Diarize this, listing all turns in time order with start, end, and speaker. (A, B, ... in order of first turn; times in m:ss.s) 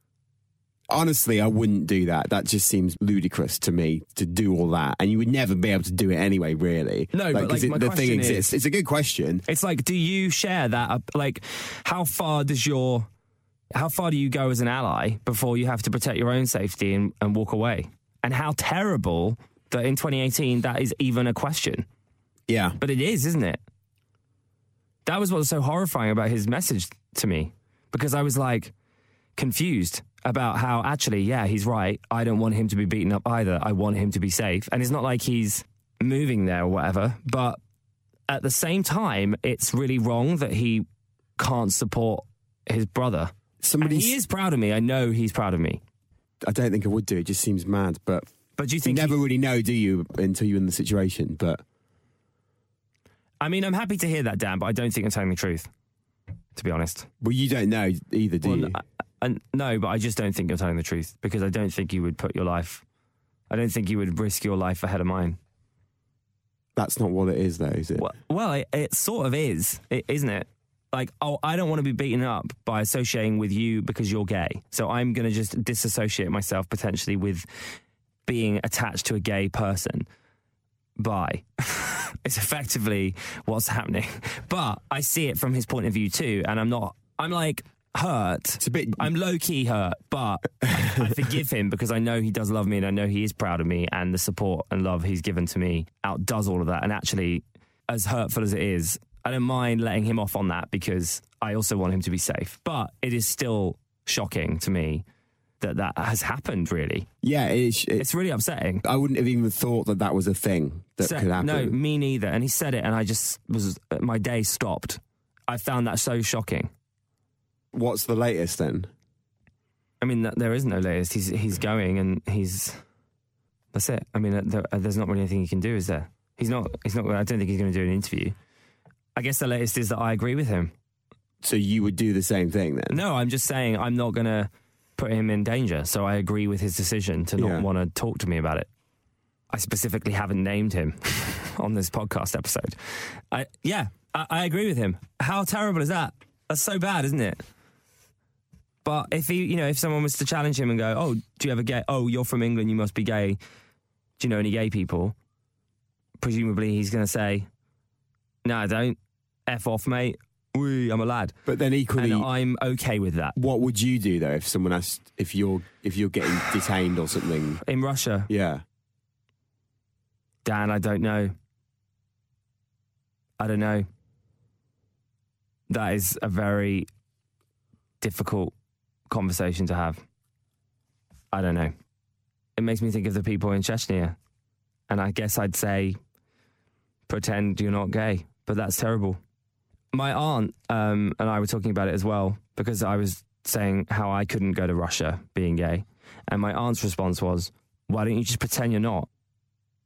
0:00.9-0:09.4 A
0:07.1-0:08.6 B
0:09.4-0:13.1 B
0:13.7-0:21.8 B
0:22.5-0:22.8 A
0:22.8-0:23.6 B
0:25.0-0:28.7 B
0:29.4-0:37.6 B
0:38.3-0:40.8 B
0:41.4-0:45.8 B
0:43.6-0:44.2 A
0:46.4-0:48.3 A
0:48.6-0:49.2 B
0:48.8-0:51.6 A
0:53.4-0:55.7 B
0:56.5-0:57.1 B
0:57.2-0:58.8 A
0:58.4-1:02.8 B
1:03.5-1:05.4 B
1:06.8-1:08.1 A
1:08.0-1:17.4 B
1:18.2-1:20.1 B
1:21.0-1:45.0 B
1:28.6-1:29.1 A
1:45.6-1:47.1 B
1:47.2-1:48.1 A
1:48.0-1:48.8 B
1:48.8-1:51.8 A
1:51.0-1:56.7 B
1:57.7-1:58.9 A
2:00.0-2:02.8 B
2:03.7-2:08.3 B
2:09.2-2:10.7 B
2:11.4-2:13.0 A
2:12.9-2:18.7 B
2:17.4-2:17.7 A
2:19.5-2:22.8 B
2:23.3-2:27.4 B
2:28.8-2:33.4 B
2:34.2-2:35.1 B
2:36.2-2:37.5 B
2:38.4-2:41.3 B
2:41.4-2:42.3 A
2:41.9-2:43.4 B
2:43.4-2:47.6 A
2:47.6-2:48.3 B
2:48.3-2:48.6 A
2:50.4-2:51.3 B
2:53.4-2:53.8 B
2:55.7-2:56.9 B
2:58.0-2:58.5 B
2:59.1-3:00.0 B
3:01.3-3:01.7 B
3:02.6-3:04.2 B
3:04.9-3:06.0 B
3:07.1-3:09.2 B
3:09.9-3:19.1 B